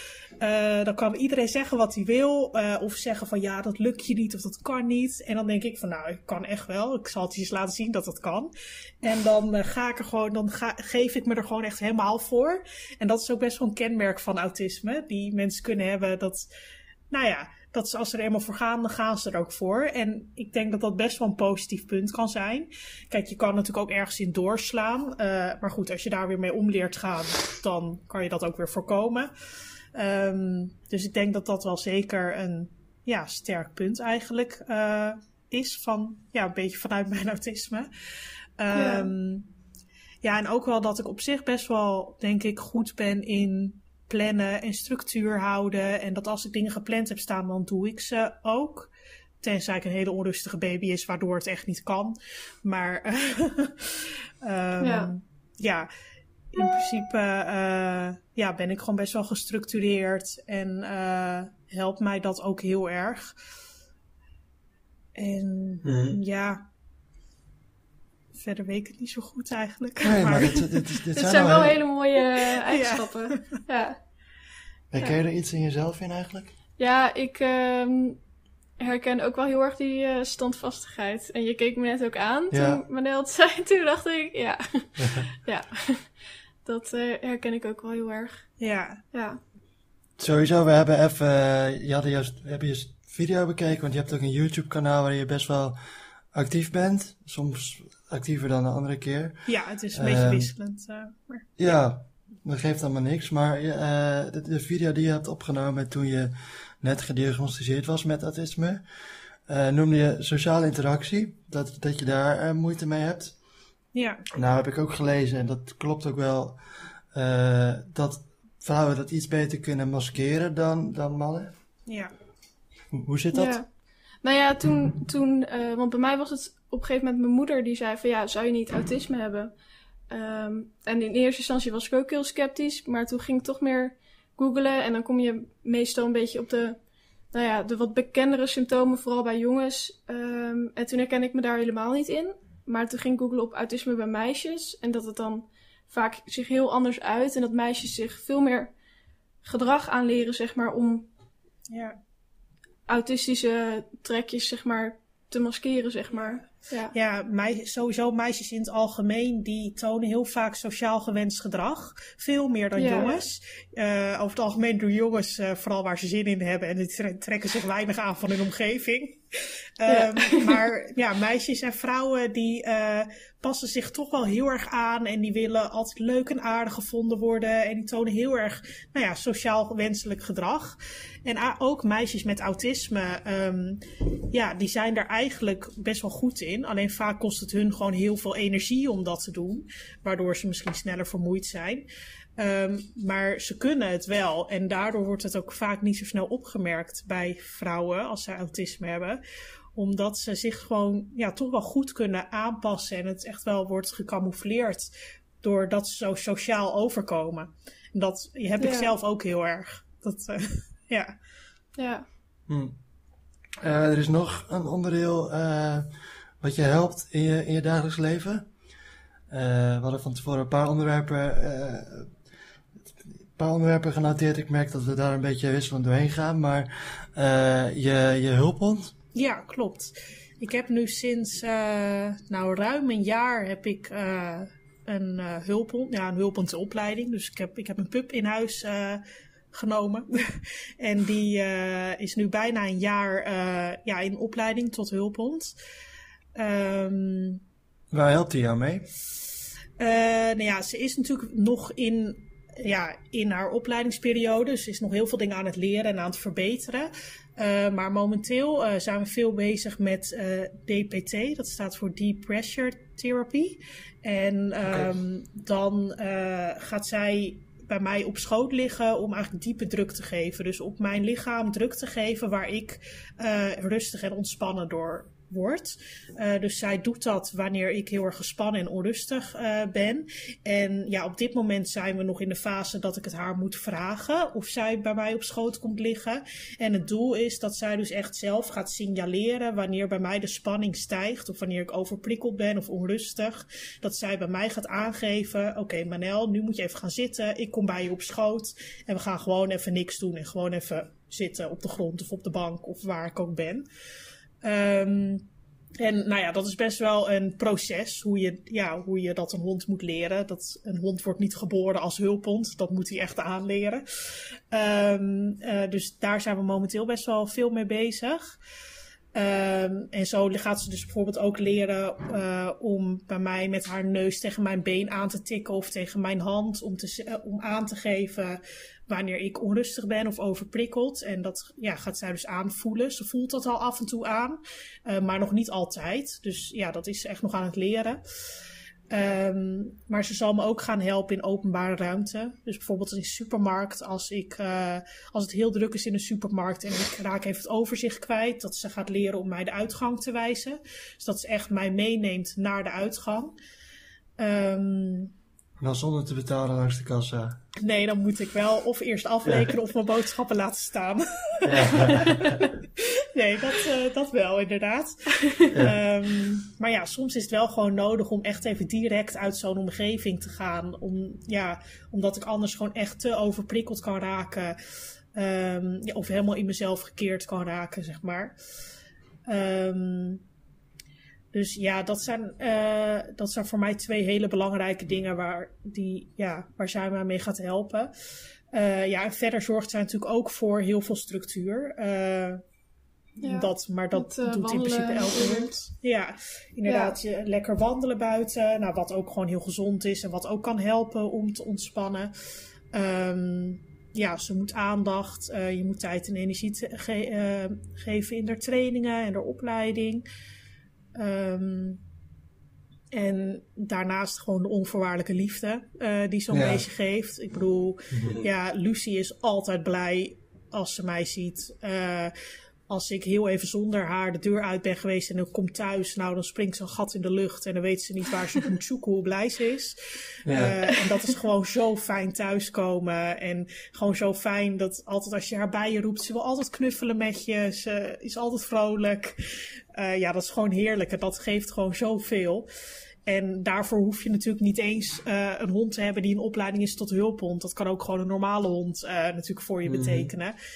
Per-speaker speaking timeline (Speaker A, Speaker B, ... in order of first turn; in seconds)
Speaker A: 0.4-16.5, 17.1-29.3, 29.9-37.9, 38.6-39.5, 40.2-48.9, 49.4-55.9, 56.5-63.3, 65.1-66.6, 68.3-70.7, 72.3-73.4, 88.6-89.0, 99.5-101.5, 113.9-114.2, 121.9-122.1, 151.7-152.0, 156.9-169.2, 169.8-191.8, 192.4-199.2, 199.7-204.9, 205.4-211.1, 229.1-245.5, 246.3-247.4, 249.8-303.6, 304.4-305.3, 305.8-313.8, 314.5-318.3, 319.1-338.0, 338.9-353.3, 354.2-355.1, 357.6-374.6, 375.1-378.3, 379.2-380.2, 381.3-387.9, 388.5-392.4, 393.2-402.1, 402.7-410.0, 410.9-411.8, 412.9-422.1, 422.7-442.4, 443.1-450.4
Speaker B: 38.7-39.1, 54.8-55.1, 71.2-74.0, 76.8-78.2, 78.8-88.5, 89.1-89.4, 123.3-123.7, 124.2-129.5, 130.1-136.8, 137.3-148.7, 149.4-151.1, 152.9-156.9, 162.8-163.2, 169.9-170.6, 208.6-208.9, 211.8-212.1, 393.2-395.5, 396.6-396.9
Speaker C: 65.8-66.2, 70.0-71.8, 74.9-76.5, 82.5-82.8, 85.0-85.3, 90.2-95.8, 96.3-100.5, 101.6-108.8, 109.5-113.3, 114.3-116.6, 117.1-121.5, 122.9-123.6, 212.5-212.8, 213.6-218.5, 219.3-222.1, 223.3-228.9, 247.9-248.9, 264.6-265.0, 355.6-357.4, 359.2-359.5, 361.4-362.4, 365.5-365.8, 416.3-416.6, 417.9-418.2, 430.2-430.6, 449.6-450.1